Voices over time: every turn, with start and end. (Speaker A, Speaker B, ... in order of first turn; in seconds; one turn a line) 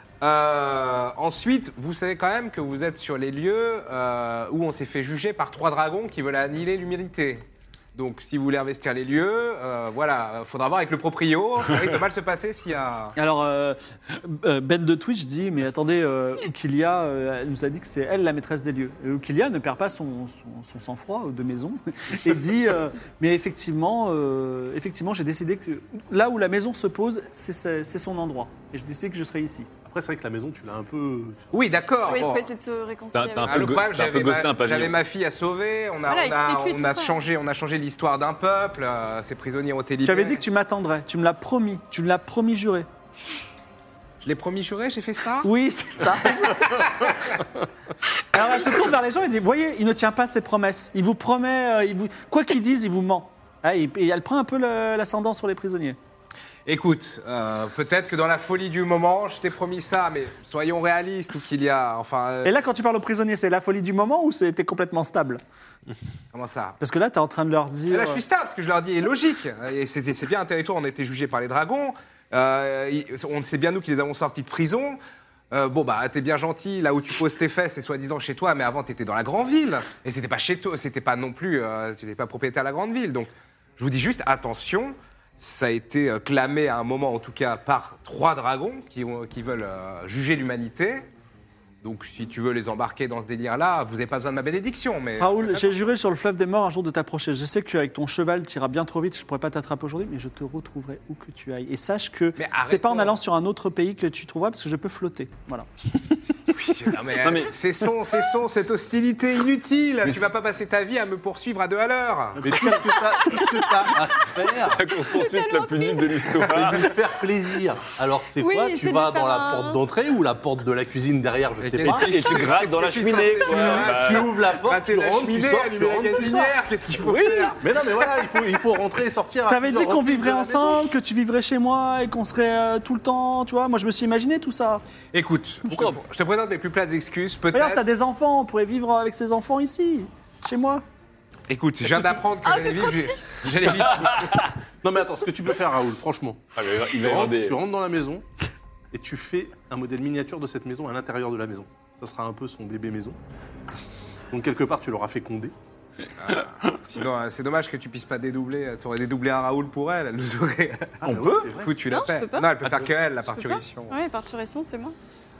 Speaker A: 0.2-13.2
Speaker B: 13.2-29.7
Speaker C: 29.9-31.5
Speaker A: 31.5-32.5
Speaker D: 32.0-33.7
Speaker E: 33.1-35.0
Speaker A: 33.5-40.4
Speaker D: 36.1-37.2
Speaker B: 40.0-42.9
Speaker A: 44.2-45.5
Speaker B: 45.4-47.1
Speaker A: 46.2-47.4
Speaker B: 48.3-56.0
Speaker A: 56.6-62.6
Speaker B: 62.4-65.4
Speaker A: 66.3-66.8
Speaker B: 66.8-68.2
Speaker A: 67.9-75.0
Speaker A: 75.5-91.1
Speaker A: 91.8-95.8
Speaker B: 95.2-105.7
Speaker A: 102.4-103.2
Speaker A: 106.5-112.6
Speaker E: 107.2-107.5
Speaker B: 112.4-113.4
Speaker C: 112.4-114.8
Speaker E: 114.7-116.9
Speaker D: 115.0-116.4
Speaker C: 116.3-122.4
Speaker D: 118.4-119.8
Speaker A: 121.6-127.6
Speaker E: 121.8-124.3
Speaker C: 123.4-126.5
Speaker E: 127.0-127.5
Speaker C: 127.6-130.8
Speaker B: 129.5-134.8
Speaker A: 135.1-137.8
Speaker E: 135.7-136.0
Speaker B: 137.5-140.8
Speaker A: 141.5-144.5
Speaker D: 142.4-143.4
Speaker E: 144.0-144.5
Speaker C: 144.8-148.2
Speaker E: 146.5-147.6
Speaker C: 148.9-153.2
Speaker C: 154.3-155.5
Speaker A: 156.2-161.0
Speaker E: 161.0-161.5
Speaker C: 161.0-161.8
Speaker A: 161.5-164.0
Speaker D: 161.9-162.5
Speaker D: 163.3-164.9